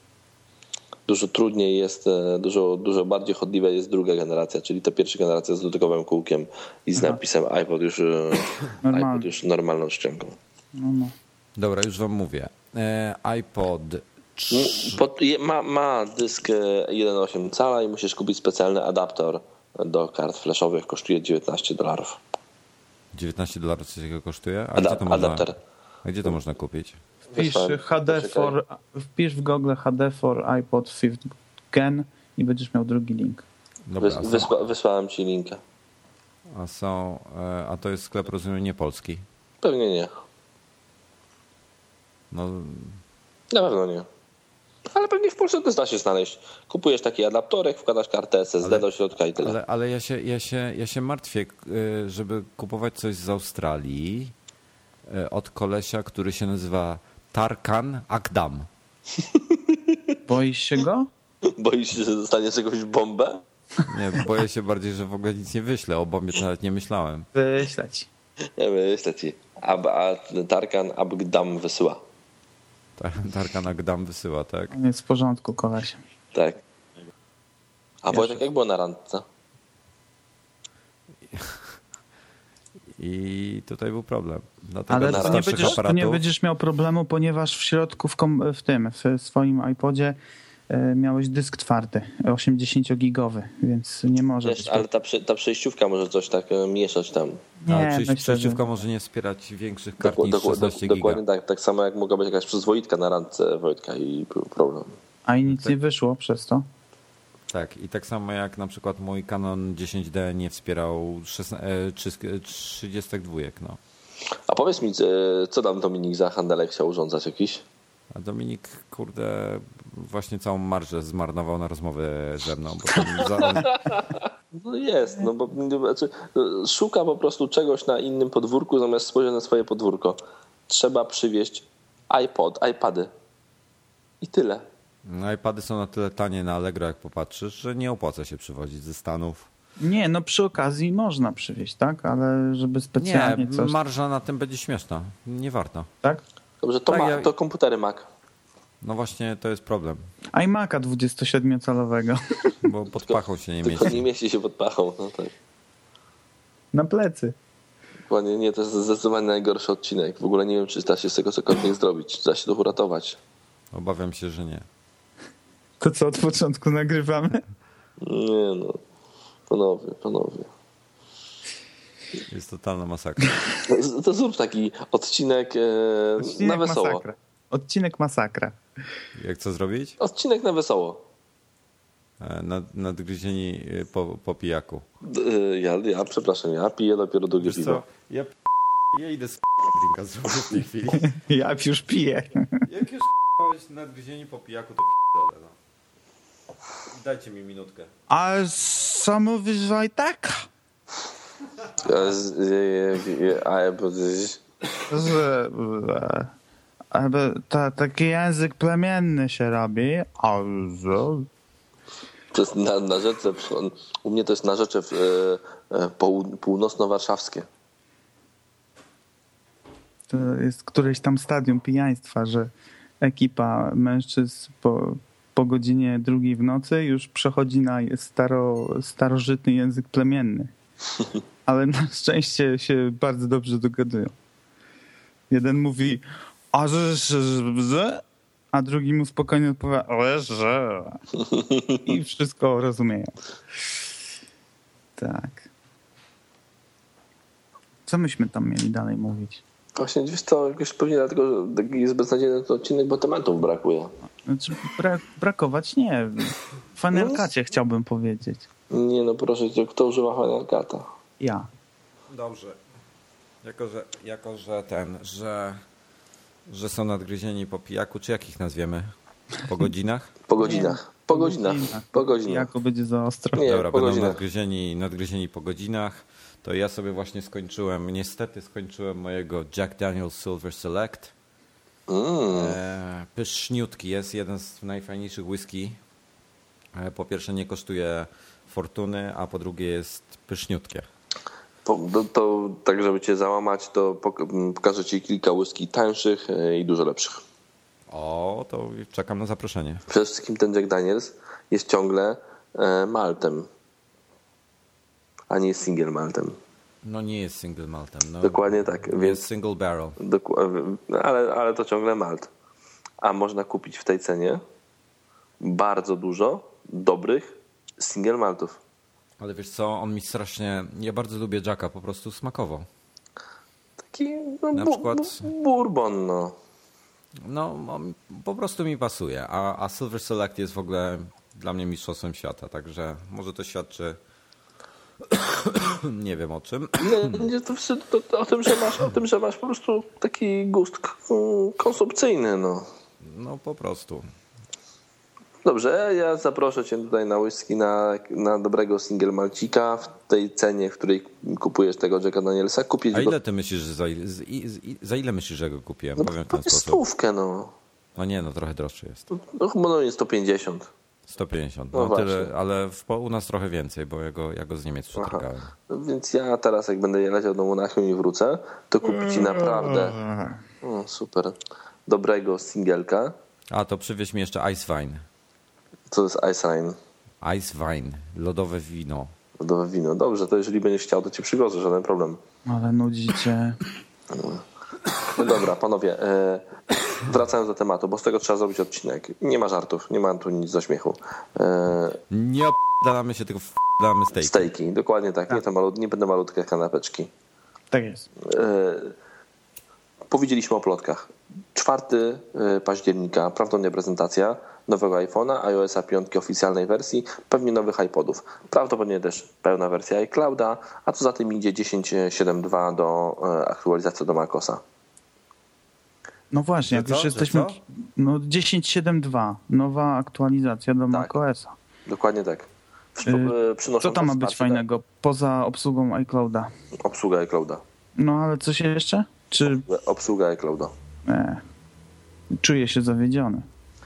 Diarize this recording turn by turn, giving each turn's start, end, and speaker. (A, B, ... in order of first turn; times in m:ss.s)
0:01.1-0:10.4 A
0:08.8-0:09.3 B
0:10.8-0:11.1 B
0:11.6-0:15.0 C
0:14.5-0:22.2 A
0:23.1-0:25.5 C
0:24.8-0:25.6 A
0:26.0-0:27.0 C
0:27.3-0:28.6 A
0:27.4-0:33.4 B
0:33.9-0:34.6 C
0:34.0-0:35.6 A
0:36.5-0:39.2 C
0:39.6-0:40.1 A
0:42.3-0:43.0 C
0:43.5-0:44.1 A
0:44.9-0:49.6 A
0:48.6-0:54.3 C
0:55.1-0:58.7 C
0:59.2-1:00.2 A
1:00.3-1:01.1 B
1:01.4-1:03.4 A
1:03.9-1:07.3 C
1:07.4-1:08.1 B
1:08.6-1:12.0 A
1:13.0-1:14.7 C
1:14.7-1:16.0 B
1:16.3-1:16.6 A
1:18.0-1:19.2 A
1:18.1-1:18.4 B
1:21.3-1:21.7 C
1:23.0-1:26.2 C
1:24.9-1:30.2 B
1:25.0-1:25.8 A
1:30.7-1:34.8 B
1:34.4-1:37.4 A
1:37.6-1:38.6 B
1:37.7-1:41.2 C
1:40.0-1:45.0 A
1:45.3-1:46.7 B
1:45.5-1:45.7 C
1:47.5-1:53.8 C
1:54.5-1:57.6 A
1:58.1-2:03.8 C
2:03.4-2:13.1 A
2:14.2-2:14.6 A
2:15.1-2:19.5 C
2:19.8-2:23.8 B
2:23.0-2:25.9 C
2:26.6-2:28.1 A
2:26.9-2:27.3 C
2:28.8-2:30.0 C
2:30.3-2:32.6 B
2:32.6-2:34.0 C
2:33.1-2:35.3 A
2:36.7-2:37.4 B
2:38.1-2:43.2 A
2:43.7-2:44.7 C
2:45.8-2:47.4 B
2:48.0-2:48.8 A
2:49.5-2:50.5 A
2:52.3-2:53.4 C
2:53.7-2:57.0 A
2:56.2-2:58.6 B
2:59.2-3:00.0 C
3:00.0-3:01.0 A
3:02.2-3:04.8 C
3:05.0-3:07.8 A
3:07.4-3:08.4 C
3:08.9-3:11.1 C
3:11.0-3:12.7 B
3:12.7-3:15.6 C
3:16.9-3:17.9 C
3:18.1-3:20.5 B
3:21.8-3:24.4 A
3:24.9-3:26.3 B
3:26.9-3:31.3 B
3:32.3-3:37.5 A
3:40.1-3:42.5 B
3:43.0-3:50.5 B
3:51.5-3:54.1 B
3:55.3-4:01.0 B
4:01.3-4:01.8 A
4:01.8-4:03.1 B
4:05.0-4:05.5 B
4:07.9-4:09.4 B
4:09.8-4:14.0 A
4:14.3-4:18.5 B
4:16.9-4:17.2 A
4:18.7-4:20.9 A
4:21.2-4:21.5 B
4:22.1-4:22.6 C
4:23.4-4:25.6 C
4:26.5-4:28.9 C
4:29.4-4:30.2 C
4:30.3-4:32.5 A
4:30.4-4:33.4 B
4:33.4-4:34.2 A
4:33.4-4:41.1 C
4:41.9-4:42.6 A
4:42.3-4:45.8 C
4:46.8-4:50.9 C
4:51.6-4:57.2 A
4:57.9-4:59.8 C
4:59.9-5:03.5 A
5:05.3-5:06.4 A
5:06.8-5:10.0 C
5:08.2-5:09.2 A
5:10.0-5:12.3 A
5:13.0-5:14.4 A
5:15.4-5:18.6 A
5:19.2-5:22.7 C
5:23.8-5:26.4 A
5:24.5-5:25.3 C
5:27.2-5:34.0 C
5:35.0-5:37.3 C
5:36.8-5:42.7 A
5:43.0-5:44.0 C
5:45.4-5:53.2 A
5:52.9-5:56.8 C
5:56.0-5:57.5 A
5:58.0-5:59.1 C
5:59.1-6:00.7 A
6:01.1-6:05.5 C
6:01.7-6:02.3 A
6:05.0-6:10.0 A
6:08.9-6:10.4 B
6:10.6-6:11.4 A
6:11.9-6:13.1 A
6:13.5-6:15.0 C
6:15.9-6:16.8 A
6:17.2-6:19.1 C
6:19.4-6:22.2 A
6:22.5-6:23.6 B
6:24.1-6:24.4 A
6:25.0-6:32.0 A
6:32.1-6:34.5 C
6:34.2-6:37.1 A
6:37.7-6:38.1 B
6:38.2-6:38.9 A
6:40.1-6:54.6 A
6:56.3-7:01.6 B
6:56.7-6:57.6 C
7:01.9-7:04.6 A
7:03.0-7:06.5 B
7:06.8-7:07.6 A
7:08.0-7:09.7 B
7:09.6-7:10.7 A
7:11.1-7:11.4 B
7:12.4-7:13.5 B